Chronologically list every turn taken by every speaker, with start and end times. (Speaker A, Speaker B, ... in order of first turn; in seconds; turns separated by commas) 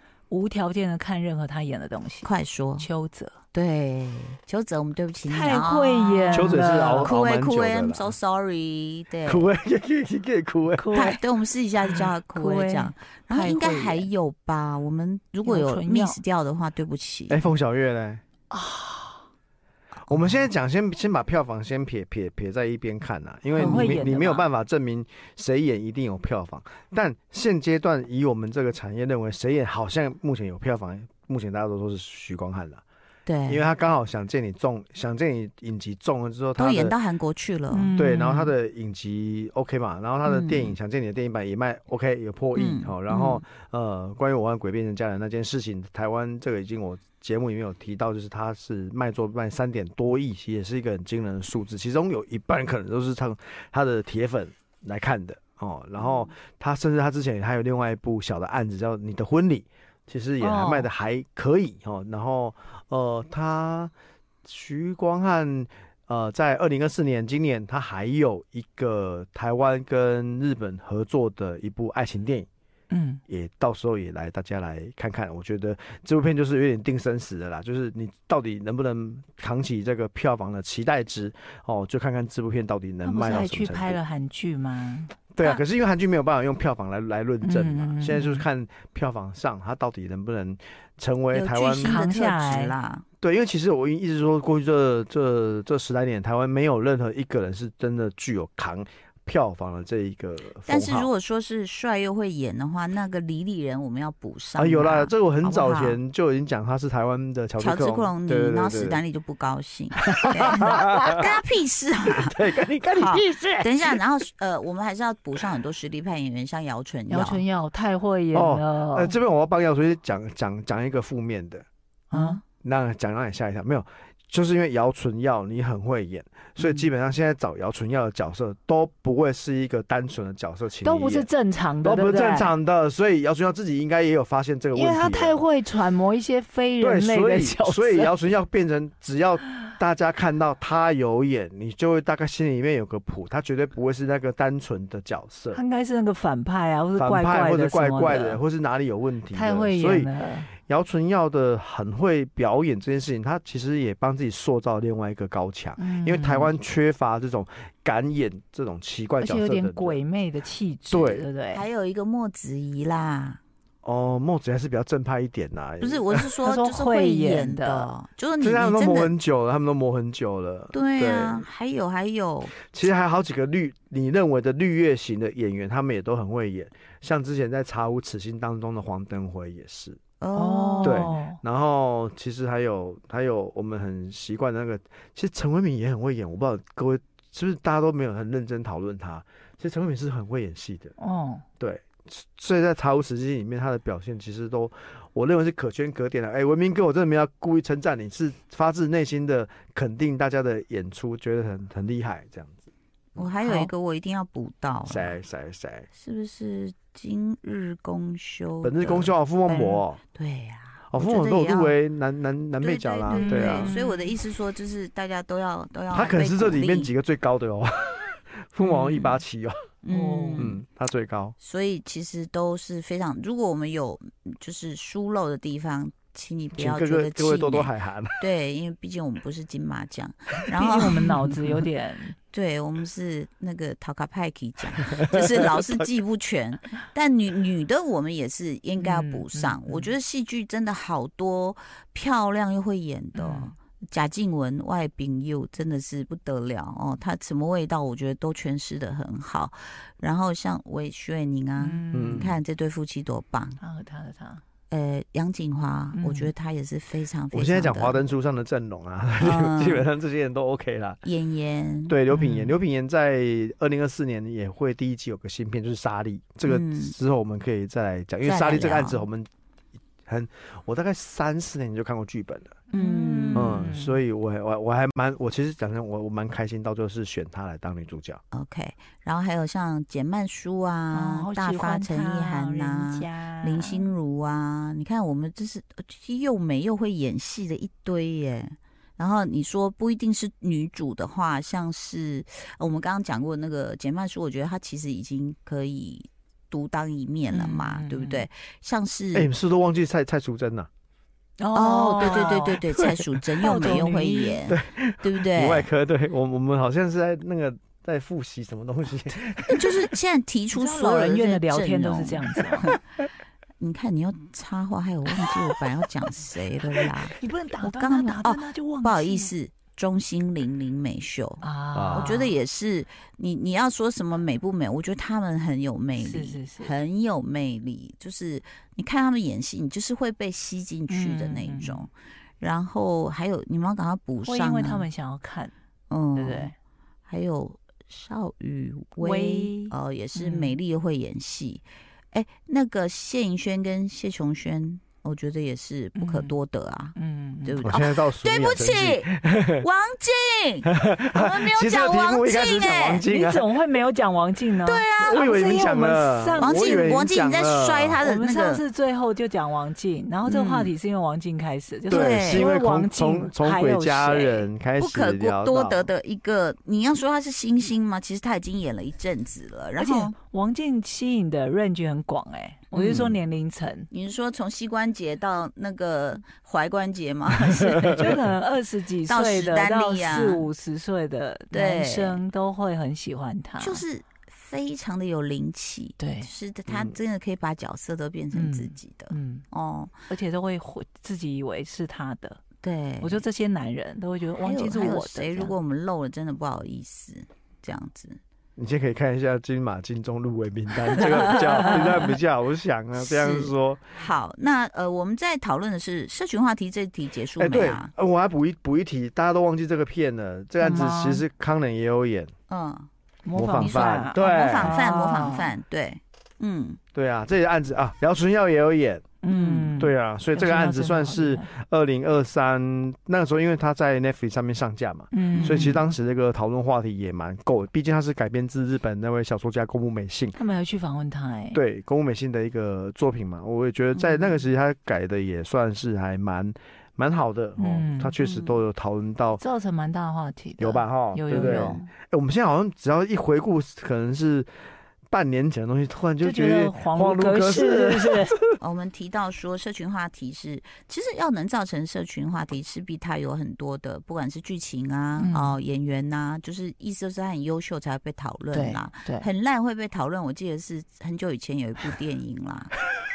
Speaker A: 0.3-3.4, Speaker B: 2.2-2.9, Speaker B: 3.5-9.5, Speaker A: 5.2-7.1, Speaker C: 6.3-8.1, Speaker C: 9.2-10.9, Speaker A: 10.8-11.2, Speaker B: 10.9-17.4, Speaker A: 11.8-14.1, Speaker A: 15.4-16.2, Speaker C: 17.3-18.2, Speaker A: 18.5-19.2, Speaker B: 20.1-20.4, Speaker C: 20.1-32.8, Speaker A: 23.6-24.5, Speaker B: 23.6-24.0, Speaker B: 33.3-33.7, Speaker C: 33.5-37.0, Speaker B: 36.6-37.9, Speaker A: 37.7-38.5, Speaker C: 38.0-63.9, Speaker B: 40.2-40.8, Speaker B: 42.5-43.4, Speaker B: 56.0-56.3, Speaker A: 60.4-60.9, Speaker C: 64.5-72.5, Speaker A: 72.9-73.2, Speaker C: 73.3-84.0, Speaker A: 83.0-85.6, Speaker C: 85.3-92.0, Speaker A: 87.4-88.5, Speaker B: 91.3-93.0, Speaker A: 91.8-92.8, Speaker C: 93.2-101.1, Speaker B: 100.7-106.0, Speaker C: 104.6-109.0, Speaker B: 107.6-117.4, Speaker C: 110.1-111.3, Speaker C: 112.1-114.0, Speaker A: 117.1-119.2, Speaker C: 118.3-121.7, Speaker A: 122.1-122.4, Speaker B: 122.1-122.4, Speaker C: 122.6-131.3, Speaker B: 126.6-126.9, Speaker A: 130.8-132.5, Speaker C: 131.8-135.4, Speaker A: 134.8-138.1, Speaker C: 136.8-145.6, Speaker A: 145.5-148.4, Speaker C: 147.0-160.0, Speaker A: 149.3-150.5, Speaker A: 155.8-156.5, Speaker A: 159.2-161.7, Speaker C: 160.9-161.3, Speaker B: 161.5-163.4, Speaker C: 163.8-166.3, Speaker B: 165.8-169.1, Speaker A: 166.4-167.9, Speaker C: 168.4-171.4, Speaker B: 170.7-172.6, Speaker C: 172.6-180.0, Speaker B: 180.2-181.1, Speaker A: 180.3-181.4, Speaker C: 180.8-190.9, Speaker A: 191.0-191.4, Speaker C: 191.6-202.7, Speaker B: 203.2-205.2, Speaker A: 203.4-203.7, Speaker C: 204.9-205.9, Speaker B: 205.9-211.8, Speaker C: 208.6-210.0, Speaker C: 210.9-213.8, Speaker B: 212.6-216.9, Speaker A: 213.1-214.2, Speaker C: 215.9-219.7, Speaker A: 218.6-219.0, Speaker B: 219.8-220.6, Speaker A: 219.9-220.5, Speaker C: 220.4-221.4, Speaker B: 221.4-231.2, Speaker C: 226.6-228.2, Speaker A: 230.6-232.2, Speaker B: 232.3-253.6, Speaker C: 235.0-235.8, Speaker A: 238.8-239.9, Speaker A: 243.2-243.5, Speaker A: 251.6-252.3, Speaker C: 251.9-252.4, Speaker A: 253.6-254.4, Speaker B: 254.7-258.0, Speaker A: 255.9-256.3, Speaker C: 257.3-261.0, Speaker B: 259.2-259.9, Speaker B: 261.0-262.0, Speaker C: 261.9-269.3, Speaker A: 262.1-262.6, Speaker B: 266.5-267.0, Speaker B: 268.2-269.1, Speaker C: 270.1-272.6, Speaker A: 272.7-274.0, Speaker B: 272.7-273.6, Speaker C: 273.4-278.2, Speaker B: 278.3-299.3, Speaker A: 280.9-283.9, Speaker A: 297.3-298.2, Speaker C: 299.1-300.7, Speaker A: 301.4-302.6, Speaker B: 301.5-305.7, Speaker C: 302.7-303.0, Speaker A: 303.4-304.5, Speaker C: 304.5-309.8, Speaker B: 309.5-312.8, Speaker A: 310.5-312.7, Speaker B: 313.6-334.9, Speaker A: 317.1-319.3, Speaker A: 321.4-322.3, Speaker C: 321.7-322.3, Speaker A: 326.0-326.7, Speaker A: 330.9-331.9, Speaker A: 334.2-335.5, Speaker B: 335.9-336.5, Speaker A: 336.1-336.6, Speaker B: 337.1-353.1, Speaker A: 339.0-340.6, Speaker A: 346.0-346.4, Speaker A: 347.0-347.7, Speaker C: 347.6-349.6, Speaker C: 350.7-353.5, Speaker A: 353.1-356.9, Speaker B: 354.6-355.2, Speaker C: 355.0-358.0, Speaker B: 356.4-358.6, Speaker A: 358.0-364.5, Speaker B: 360.2-360.7, Speaker C: 361.9-365.9, Speaker B: 361.9-362.5, Speaker B: 364.8-370.1, Speaker A: 369.8-373.9, Speaker B: 372.7-373.0, Speaker C: 372.9-373.2, Speaker B: 373.9-378.1, Speaker C: 377.9-378.1, Speaker A: 377.9-383.8, Speaker B: 379.1-380.5, Speaker B: 381.5-382.2, Speaker B: 383.6-389.9, Speaker A: 386.0-386.3, Speaker C: 386.7-387.0, Speaker A: 388.3-389.4, Speaker A: 390.1-392.4, Speaker B: 392.6-393.2, Speaker A: 393.0-395.5, Speaker B: 394.4-398.2, Speaker C: 398.6-403.8, Speaker B: 401.4-402.1, Speaker B: 403.0-407.9, Speaker C: 407.4-412.3, Speaker A: 410.6-411.2, Speaker B: 412.5-412.9, Speaker A: 413.2-415.5, Speaker C: 413.3-414.8, Speaker B: 413.6-416.8, Speaker C: 416.9-419.1, Speaker A: 419.2-421.5, Speaker B: 419.3-419.8, Speaker C: 419.8-430.4, Speaker A: 425.1-425.8, Speaker B: 425.4-425.8, Speaker A: 430.4-431.6, Speaker C: 431.5-439.4, Speaker B: 433.9-434.4, Speaker A: 437.6-438.1, Speaker B: 438.2-438.6, Speaker A: 439.4-441.8, Speaker C: 440.6-444.5, Speaker B: 441.3-441.9, Speaker C: 445.1-448.6, Speaker A: 446.2-448.4, Speaker B: 448.6-462.8, Speaker A: 455.2-455.6, Speaker A: 458.5-459.3